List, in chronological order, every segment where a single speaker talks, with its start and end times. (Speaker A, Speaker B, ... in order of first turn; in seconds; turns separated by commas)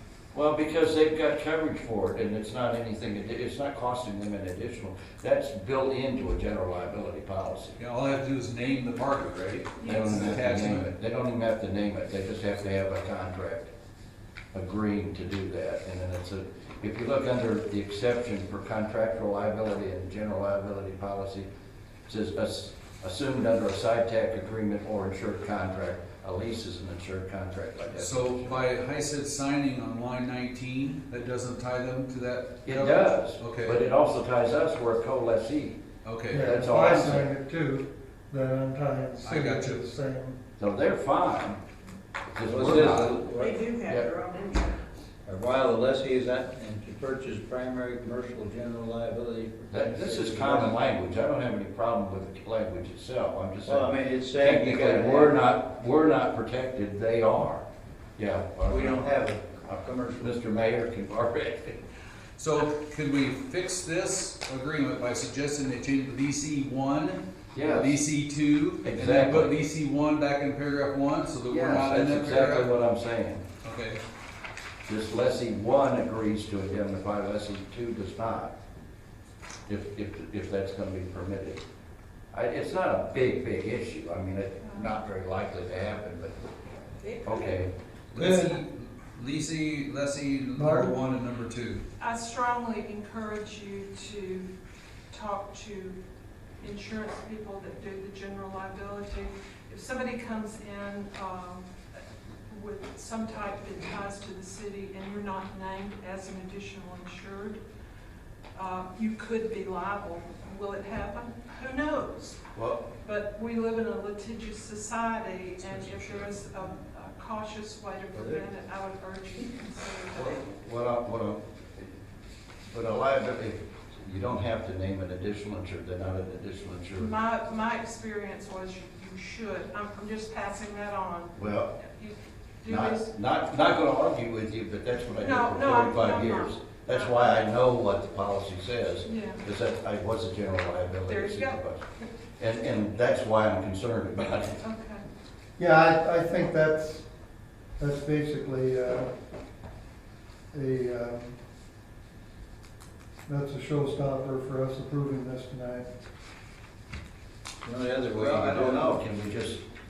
Speaker A: 0.3-7.8, Speaker B: 7.8-10.9, Speaker C: 9.8-10.2, Speaker A: 9.8-13.7, Speaker A: 14.5-21.5, Speaker A: 22.1-28.7, Speaker B: 27.9-33.8, Speaker A: 32.6-35.8, Speaker B: 36.0-37.2, Speaker D: 36.3-40.4, Speaker A: 36.3-37.2, Speaker B: 39.2-39.8, Speaker A: 40.6-41.6, Speaker A: 42.3-43.2, Speaker E: 42.4-43.6, Speaker F: 43.3-45.0, Speaker E: 45.2-50.7, Speaker A: 49.7-57.6, Speaker E: 53.6-55.4, Speaker A: 58.2-59.1, Speaker E: 58.6-60.4, Speaker A: 60.2-61.8, Speaker B: 62.4-72.7, Speaker A: 67.5-68.0, Speaker A: 68.8-69.5, Speaker A: 71.5-73.4, Speaker B: 73.6-74.0, Speaker A: 74.8-78.5, Speaker A: 79.7-81.6, Speaker A: 82.3-86.3, Speaker C: 84.6-85.0, Speaker F: 87.0-87.6, Speaker A: 87.2-87.7, Speaker B: 88.1-91.8, Speaker D: 88.2-88.6, Speaker D: 90.5-90.9, Speaker C: 92.0-94.5, Speaker C: 95.1-96.0, Speaker C: 96.6-101.7, Speaker C: 102.5-107.6, Speaker C: 108.5-112.4, Speaker A: 112.5-112.9, Speaker C: 113.0-120.3, Speaker B: 115.6-116.7, Speaker A: 120.1-121.9, Speaker A: 122.7-127.1, Speaker C: 127.0-133.1, Speaker A: 131.3-131.7, Speaker A: 132.7-141.8, Speaker C: 135.2-137.4, Speaker C: 139.0-139.4, Speaker C: 141.1-141.6, Speaker A: 142.4-144.6, Speaker C: 144.6-145.0, Speaker D: 145.6-147.1, Speaker D: 147.8-149.1, Speaker D: 150.5-151.3, Speaker D: 153.3-155.9, Speaker E: 157.6-159.0, Speaker A: 158.0-159.6